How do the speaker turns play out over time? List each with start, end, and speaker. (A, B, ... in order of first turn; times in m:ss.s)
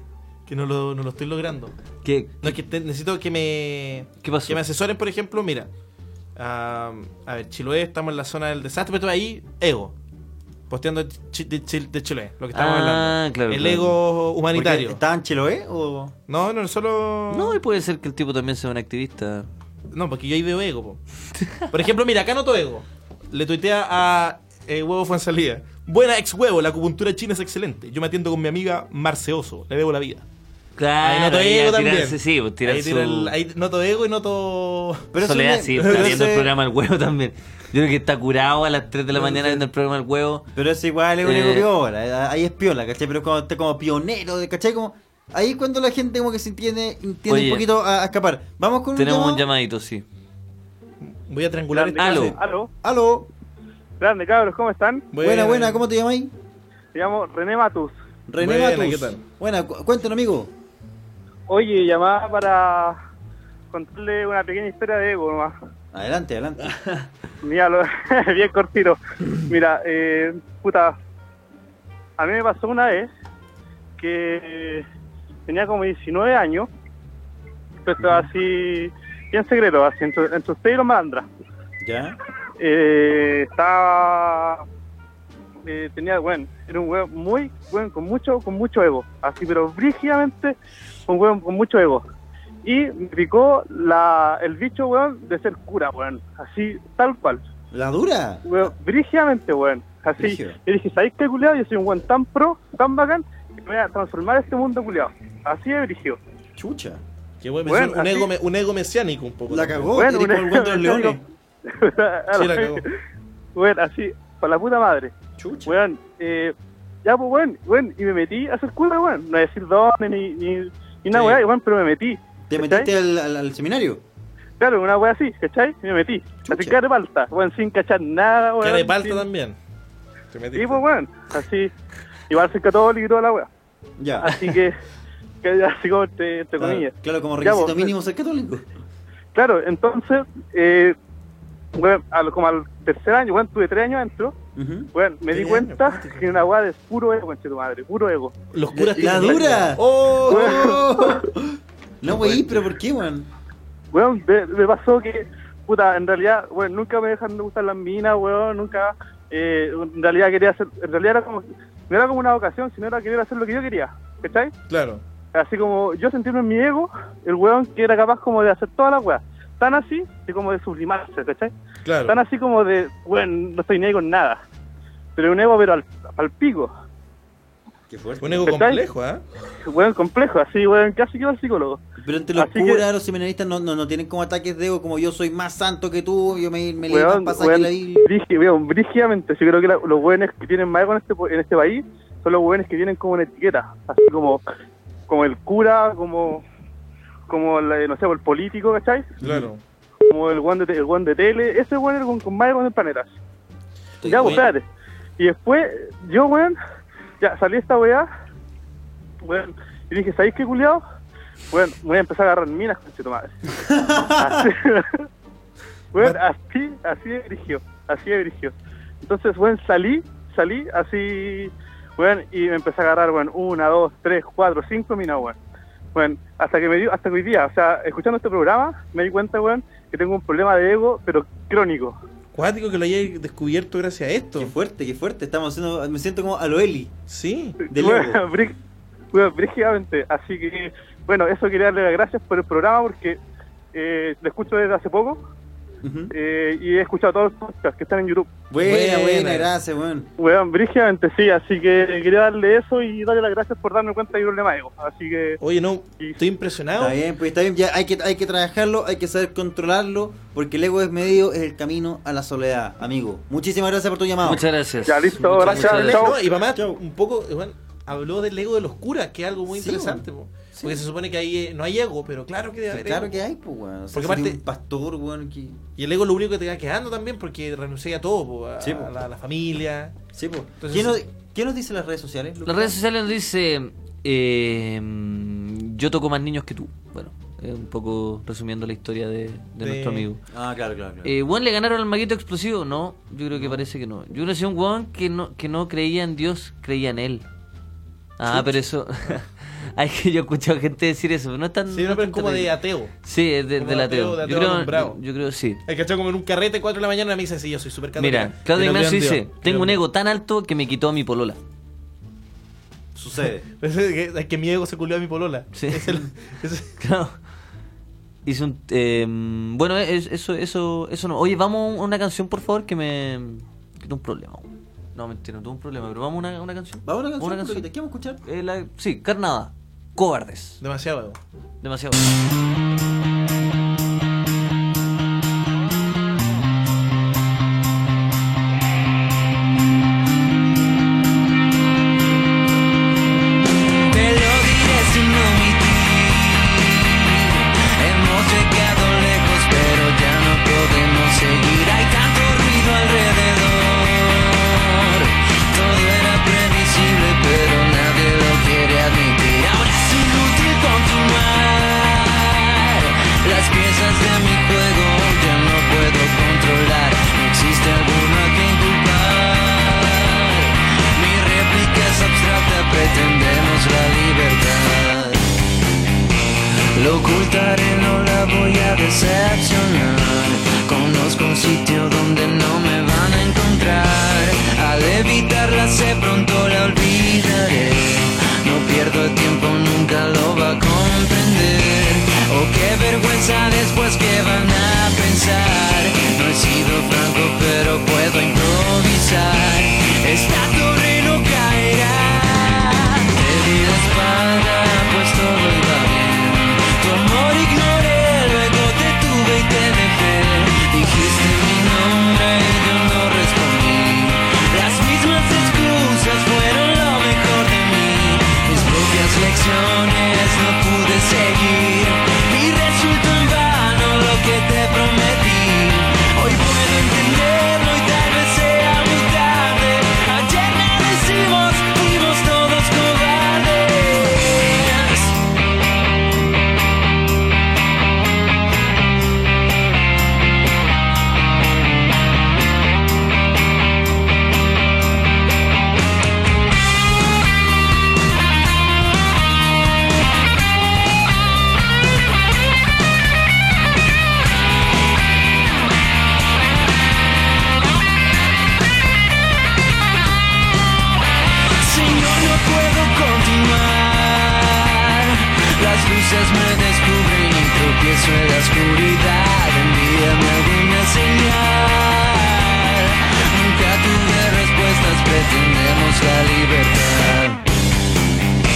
0:00.5-0:01.7 A
0:02.0-0:02.6 B
0:02.4-0:05.7 A
0:04.2-0:04.6 B
0:06.4-0:09.9 A
0:10.7-0:15.0 A
0:12.5-0:14.0 B
0:14.5-0:16.1 C
0:16.3-0:17.6 A
0:17.3-0:19.5 B
0:19.9-0:21.0 A
0:21.7-0:30.2 A
0:30.8-0:33.3 B
0:31.0-0:35.1 A
0:35.1-0:36.5 C
0:35.2-0:40.5 B
0:35.8-0:36.2 A
0:40.5-0:49.4 C
0:41.2-0:41.7 B
0:47.3-0:47.7 B
0:49.0-0:50.0 B
0:51.0-0:52.4 A
0:51.7-0:52.7 D
0:52.0-0:52.4 B
0:52.8-0:53.3 C
0:54.0-0:55.1 D
0:55.1-0:55.8 A
0:55.2-0:56.3 C
0:56.9-0:57.9 D
0:58.3-1:00.5 C
0:58.4-0:59.2 A
1:01.5-1:03.0 D
1:03.7-1:05.5 D
1:05.9-1:06.8 C
1:07.4-1:11.0 D
1:12.2-1:13.1 D
1:14.0-1:14.8 D
1:15.5-1:16.7 D
1:17.8-1:21.3 D
1:21.8-1:22.2 C
1:22.6-1:24.6 D
1:25.6-1:30.5 D
1:31.1-1:32.0 D
1:32.6-1:37.4 D
1:37.7-1:38.7 C
1:38.4-1:46.2 D
1:40.2-1:40.6 C
1:46.6-1:47.0 C
1:47.4-1:49.9 A
1:47.6-1:48.3 D
1:49.5-1:51.2 C
1:49.9-1:52.8 D
1:52.3-1:52.8 A
1:53.5-1:55.1 D
1:55.4-1:55.8 C
1:55.6-1:56.5 D
1:57.0-2:02.9 D
2:01.1-2:01.4 A
2:02.5-2:04.0 C
2:04.6-2:09.2 D
2:06.4-2:06.8 C
2:08.6-2:09.6 A
2:10.3-2:10.8 A
2:10.5-2:11.7 D
2:12.3-2:13.5 D
2:14.0-2:14.3 C
2:14.2-2:14.7 D
2:15.4-2:17.9 D
2:16.6-2:18.6 C
2:19.3-2:20.9 D
2:21.8-2:24.3 D
2:24.6-2:24.9 C
2:24.9-2:28.3 D
2:25.3-2:26.3 A
2:28.5-2:30.8 A
2:28.7-2:33.3 C
2:30.3-2:31.2 D
2:32.1-2:32.6 A
2:33.9-2:44.5 D
2:44.7-2:45.0 A
2:45.3-2:51.5 D
2:51.8-2:52.2 A
2:52.0-2:54.4 D
2:55.2-2:56.7 D
2:57.9-2:58.6 C
2:58.2-2:59.2 A
2:58.5-2:58.8 D
2:59.6-3:01.8 D
3:02.0-3:08.1 C
3:02.3-3:02.8 D
3:06.9-3:14.4 D
3:15.1-3:16.4 D
3:17.3-3:19.1 D
3:19.2-3:19.5 C
3:19.2-3:19.6 A
3:20.0-3:23.1 D
3:24.0-3:24.5 C
3:24.0-3:24.4 A
3:24.1-3:24.6 D
3:25.2-3:26.6 D
3:27.2-3:28.1 D
3:29.2-3:30.8 D
3:31.5-3:33.3 D
3:33.6-3:34.4 C
3:34.2-3:35.0 D
3:35.9-3:45.4 D
3:45.9-3:52.0 D
3:52.3-3:54.5 A
3:54.4-3:56.9 C
3:57.1-3:57.6 A
3:57.7-3:58.5 D
3:57.7-3:58.2 C
3:59.1-4:03.2 D
4:03.7-4:05.2 D
4:05.8-4:06.1 C
4:06.1-4:08.3 D
4:08.5-4:10.1 C
4:08.6-4:09.5 A
4:10.2-4:15.4 D
4:15.4-4:17.0 A
4:16.8-4:24.4 C
4:24.2-4:26.1 B
4:24.8-4:26.2 D
4:25.2-4:33.2 A
4:26.5-4:26.8 C
4:29.5-4:30.8 C
4:32.7-4:35.6 C
4:33.9-4:34.4 A
4:35.8-4:39.9 A
4:38.6-4:38.9 C
4:40.1-4:42.8 C
4:40.6-4:41.0 A
4:42.4-4:50.2 B
4:49.6-4:50.1 A
4:50.3-4:51.1 C
4:51.0-4:57.2 B
4:58.2-5:02.5 B
5:01.7-5:02.9 A
5:03.0-5:05.6 B
5:03.6-5:05.0 A
5:05.6-5:09.8 A
5:08.0-5:11.4 B
5:12.9-5:13.4 C
5:13.6-5:16.7 A
5:15.5-5:15.9 B
5:16.8-5:17.2 B
5:18.2-5:27.6 B
5:26.8-5:28.2 C
5:28.2-5:30.6 B
5:30.6-5:31.2 A
5:31.6-5:32.1 B
5:43.9-6:15.2 E
6:16.7-7:15.1 E
7:41.5-7:57.4 E